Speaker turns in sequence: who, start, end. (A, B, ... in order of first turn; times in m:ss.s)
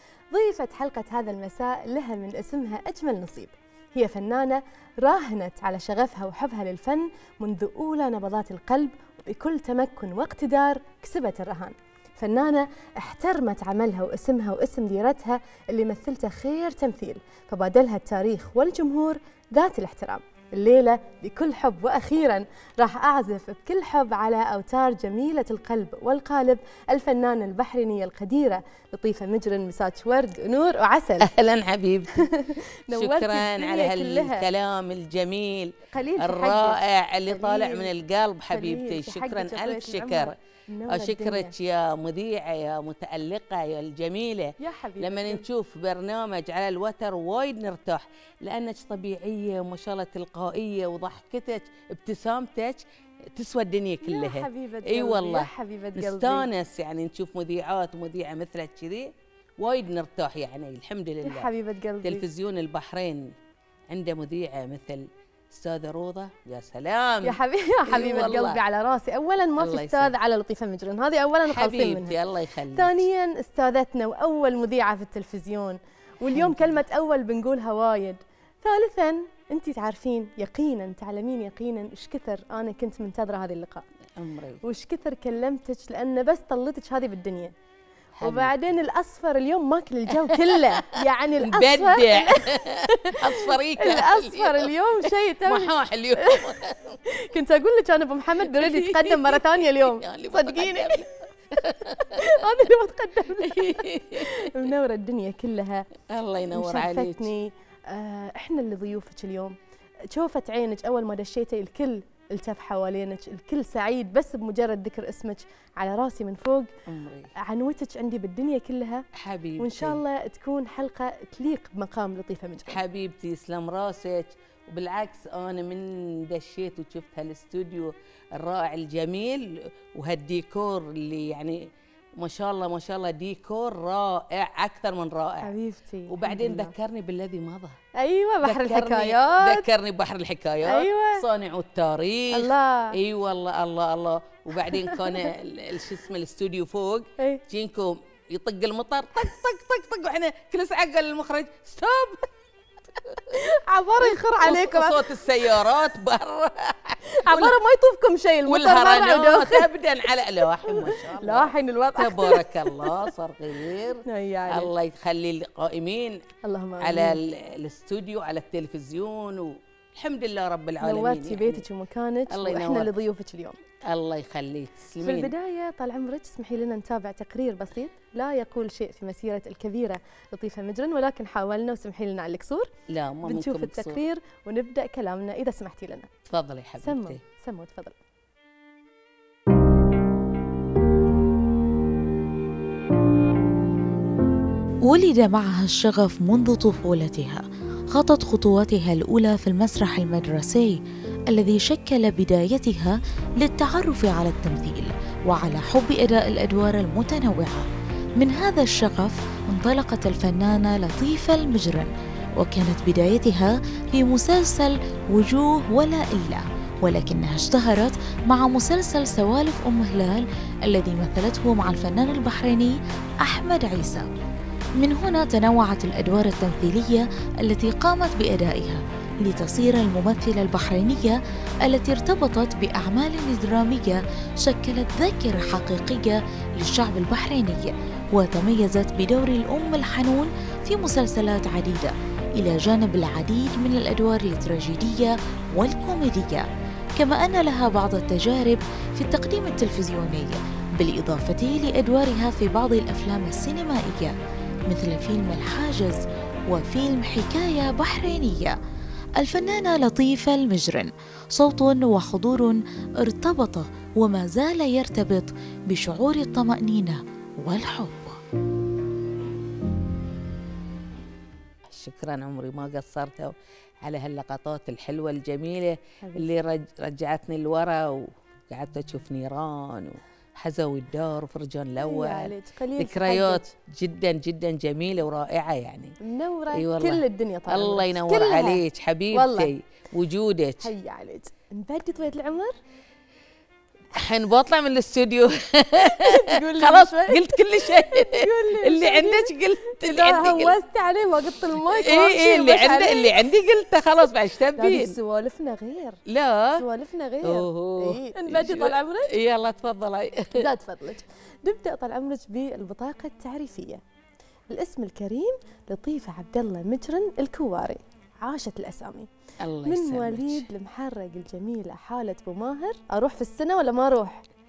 0:00.3-0:31.3 A
0:31.2-0:32.3 B
0:32.2-0:34.4 A
0:32.9-0:40.4 B
0:35.9-0:37.9 A
0:38.5-0:41.5 A
0:40.9-1:01.5 B
0:44.6-0:45.4 A
0:54.0-0:56.5 A
1:01.2-1:02.2 A
1:02.0-1:03.4 B
1:03.9-1:08.6 B
1:07.2-1:12.2 A
1:09.6-1:10.1 B
1:11.4-1:13.0 B
1:12.7-1:23.9 A
1:16.2-1:16.7 B
1:24.2-1:24.6 B
1:24.6-1:27.5 A
1:28.2-1:28.5 B
1:28.2-1:36.6 A
1:30.1-1:34.7 B
1:35.5-1:37.0 B
1:37.1-1:41.0 A
1:38.5-1:42.3 B
1:41.9-1:45.9 A
1:43.4-1:44.5 B
1:46.0-1:47.3 B
1:46.5-1:49.5 A
1:50.1-1:56.7 A
1:56.8-1:57.3 B
1:57.4-1:59.0 A
1:59.1-2:00.0 B
1:59.6-2:02.8 A
2:02.7-2:15.5 B
2:15.4-2:16.7 A
2:16.1-2:17.8 B
2:18.0-2:19.7 A
2:18.4-2:32.3 B
2:20.6-2:21.2 A
2:22.3-2:23.0 A
2:24.8-2:25.3 A
2:33.0-2:33.4 B
2:33.3-2:35.2 A
2:34.0-2:37.6 B
2:37.1-2:39.7 A
2:38.5-2:46.2 B
2:40.6-2:43.1 A
2:44.0-2:44.7 A
2:46.4-2:47.2 A
2:46.8-2:51.6 B
2:50.8-2:53.6 A
2:52.3-2:52.9 B
2:53.8-2:55.3 B
2:55.0-3:02.7 A
3:02.9-3:04.0 B
3:03.2-3:06.1 A
3:06.3-3:07.2 B
3:06.8-3:08.0 A
3:14.8-3:20.8 C
3:21.3-3:27.7 C
3:28.2-3:44.1 C
3:44.8-4:06.4 C
4:07.0-4:14.1 C
4:14.7-4:18.6 C
4:19.2-4:28.2 C
4:31.6-4:46.0 B
4:36.0-4:36.3 A
4:41.8-4:43.5 A
4:46.0-4:49.5 A
4:46.5-4:50.7 B
4:50.6-4:52.5 A
4:53.9-5:00.6 B
4:56.0-5:03.1 A
5:01.7-5:04.9 B
5:04.6-5:06.0 A
5:06.1-5:06.6 B
5:06.5-5:09.1 A
5:07.2-5:10.5 B
5:10.4-5:13.8 A
5:14.5-5:19.1 A
5:19.4-5:20.4 B
5:19.6-5:24.2 A